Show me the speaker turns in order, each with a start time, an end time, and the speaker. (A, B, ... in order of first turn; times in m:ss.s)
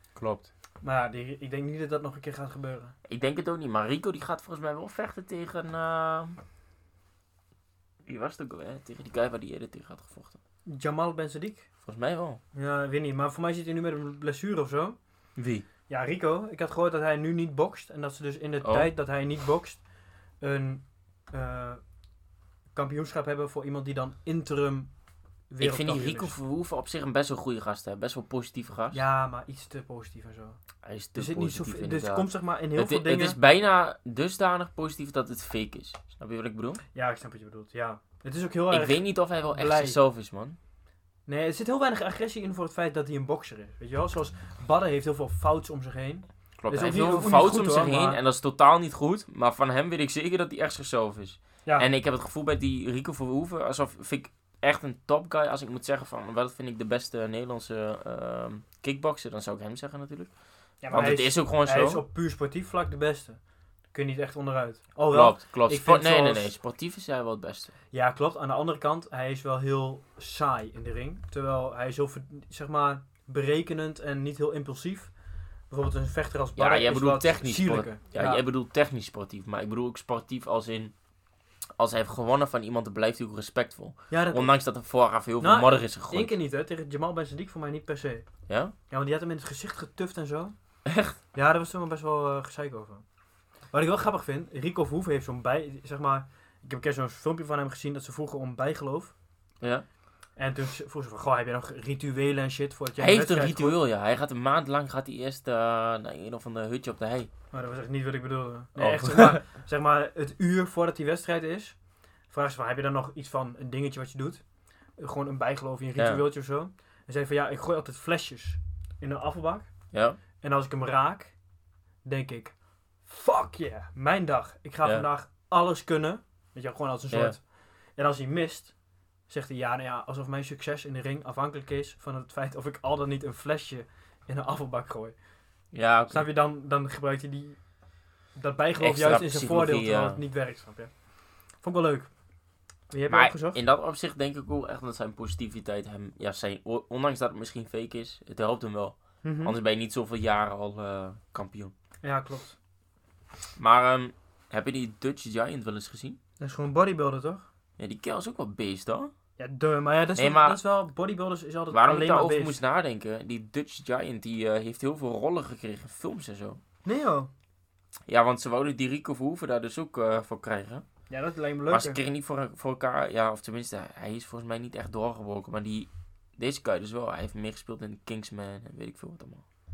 0:00.2-0:00.5 A
0:00.8-0:02.9 B
0:03.0-0:06.4 A
0:08.0-0:10.4 A
0:10.6-0:11.7 B
0:11.8-0:12.4 A
0:12.5-0:15.0 B
0:15.4-0:15.6 A
0:15.9-0:19.8 B
0:18.6-0:18.9 A
0:20.4-0:21.8 B
0:22.7-0:24.9 B
0:25.5-0:26.3 B
0:25.6-0:29.0 A
0:28.9-0:30.6 B
0:30.8-0:36.8 A
0:31.2-0:33.4 B
0:36.9-0:40.0 B
0:38.7-0:40.6 A
0:41.3-0:48.2 B
0:46.6-1:00.3 A
1:00.8-1:03.4 B
1:00.9-1:02.0 A
1:03.9-1:06.5 B
1:05.1-1:07.7 A
1:07.9-1:15.1 B
1:15.7-1:18.4 B
1:16.6-1:20.9 A
1:21.8-1:26.3 A
1:24.1-1:24.5 B
1:25.4-1:28.3 B
1:28.5-1:28.7 A
1:28.9-1:30.5 B
1:30.8-1:31.2 A
1:31.3-1:33.0 B
1:33.7-1:39.1 B
1:40.4-1:43.8 B
1:43.0-1:47.3 A
1:47.5-1:51.8 B
1:48.8-1:49.4 A
1:52.3-1:54.4 B
1:55.0-1:59.7 B
1:56.0-1:56.2 A
1:59.9-2:00.2 A
2:00.4-2:01.3 B
2:02.0-2:07.4 B
2:07.1-2:07.4 A
2:08.0-2:08.7 B
2:09.3-2:15.2 B
2:15.7-2:16.3 A
2:16.1-2:17.6 B
2:18.4-2:20.9 B
2:18.8-2:20.2 A
2:21.6-2:22.1 B
2:22.9-2:23.6 B
2:23.1-2:31.7 A
2:29.2-2:29.6 B
2:32.0-2:32.6 B
2:33.6-2:36.2 A
2:36.4-2:37.4 B
2:37.8-2:39.1 A
2:39.4-2:42.6 B
2:40.2-2:40.6 A
2:41.7-2:46.6 A
2:46.8-2:47.3 B
2:48.1-2:50.8 A
2:51.1-2:52.0 B
2:51.7-2:59.4 A